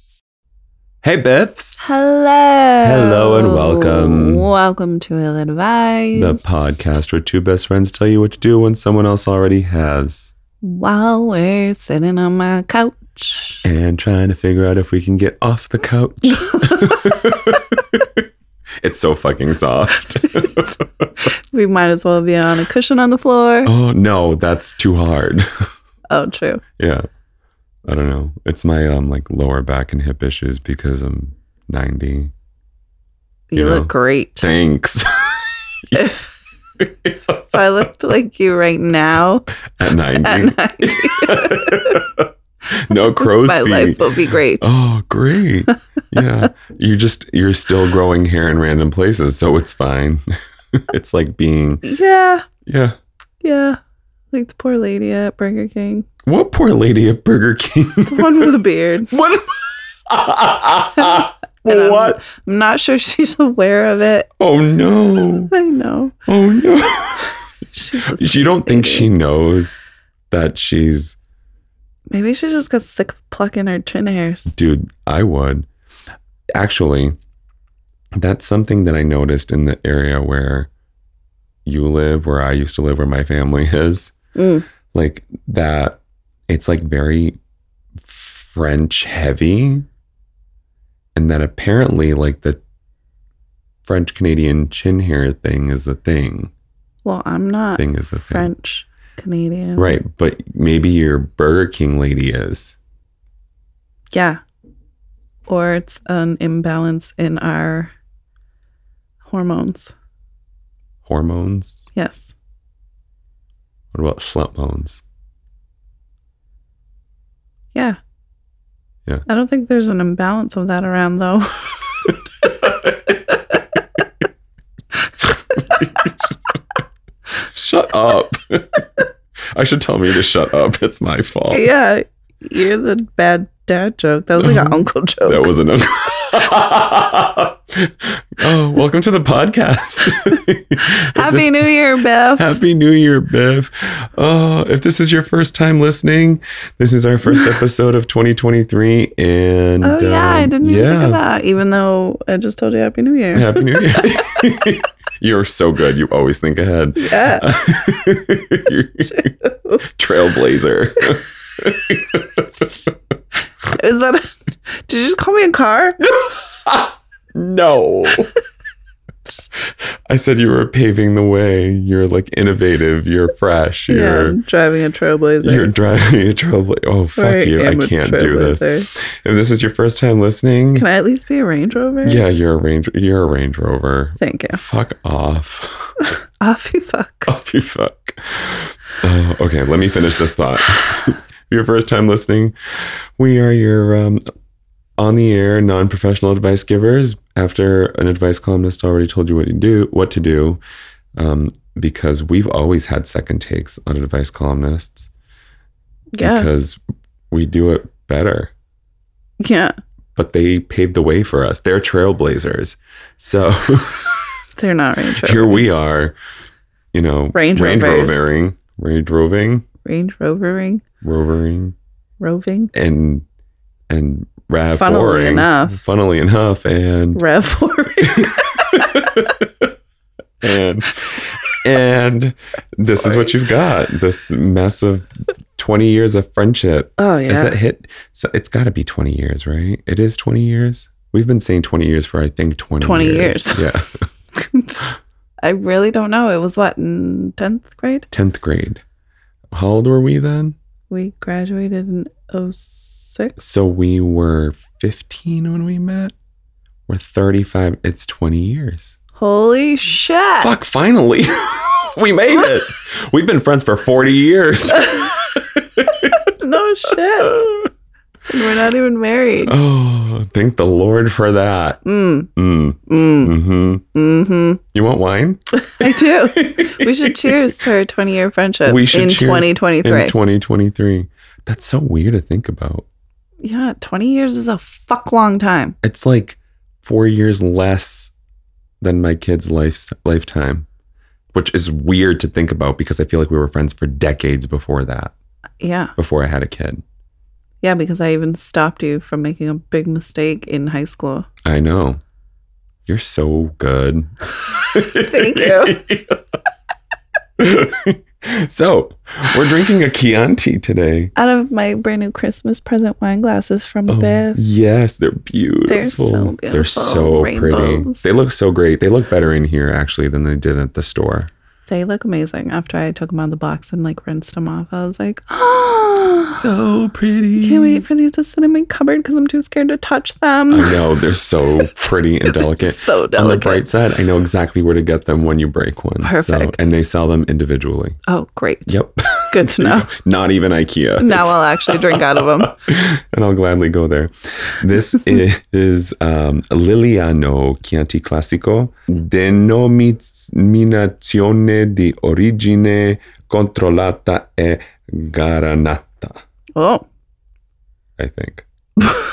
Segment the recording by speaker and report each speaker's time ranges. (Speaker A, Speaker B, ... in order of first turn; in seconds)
Speaker A: 1.0-2.1, 2.8-4.5, 6.1-10.3, 13.6-18.2, 18.8-21.1, 23.6-25.7, 26.8-27.1, 27.9-32.3, 33.5-36.1, 36.8-37.9, 39.7-51.8, 52.6-53.0, 56.2-58.5, 59.1-62.2, 64.4-65.5, 66.3-67.4, 68.0-69.8, 70.3-71.2, 74.5-75.7, 76.5-77.2, 78.2-80.7, 81.6-84.1, 84.9-87.4, 88.0-89.9, 91.1-92.6, 93.8-96.5, 97.8-98.5, 99.8-102.8, 111.0-111.9, 113.9-115.0, 122.1-124.0, 125.2-126.6, 127.4-131.7, 134.4-141.7, 142.3-151.2, 153.3-159.3, 159.9-162.9, 166.0-168.3, 169.5-174.4, 175.4-180.9, 182.0-185.9, 187.2-194.2, 195.0-200.6, 201.2-205.1, 206.2-206.8, 207.3-208.5, 210.2-214.4, 215.2-216.2, 216.9-219.7, 221.0-221.7, 222.7-223.2, 223.9-227.2, 228.0-229.7, 230.4-244.1, 248.1-248.8, 249.5-250.6, 253.4-256.1, 256.9-258.9, 260.4-266.2, 267.2-267.6, 269.4-271.8, 272.4-273.8, 274.7-277.6, 278.6-282.9, 285.8-288.1, 288.8-290.7, 291.3-295.1, 296.0-296.8, 301.4-302.0, 302.9-306.2, 307.4-311.1, 313.9-321.3, 326.3-327.8, 330.5-338.0, 338.6-356.2, 358.0-358.4
Speaker B: 1.8-6.4, 10.6-13.6, 16.4-17.2, 21.5-23.7, 26.1-26.6, 33.5-34.5, 35.9-36.3, 37.5-39.5, 40.1-42.0, 43.2-44.6, 51.8-52.5, 53.4-53.8, 54.3-56.1, 58.0-59.1, 61.0-64.3, 65.5-66.2, 67.7-69.1, 72.1-74.5, 84.3-84.7, 97.0-100.0, 104.1-104.4, 105.5-107.9, 109.2-109.9, 111.9-112.3, 117.7-118.0, 119.3-122.1, 125.6-125.8, 131.5-135.5, 140.8-142.5, 149.8-153.7, 157.0-157.5, 159.1-159.8, 163.7-166.0, 173.9-175.7, 177.2-178.9, 180.7-182.2, 184.2-184.6, 186.0-187.3, 206.2-206.5, 209.4-209.7, 214.6-215.7, 217.3-218.2, 219.8-220.8, 222.2-222.7, 224.8-225.8, 227.1-229.2, 237.0-237.6, 242.8-243.6, 244.3-244.8, 245.4-248.1, 250.9-253.3, 259.2-260.5, 266.2-267.4, 268.3-269.5, 271.8-272.3, 272.9-273.3, 273.9-274.6, 275.6-280.1, 283.4-285.8, 295.6-295.9, 297.6-301.3, 304.7-305.8, 311.1-314.4, 315.6-318.0, 321.7-326.4, 327.4-330.8, 332.3-333.6, 336.0-336.6, 338.1-338.7, 339.3-339.9, 341.0-342.6, 356.6-356.9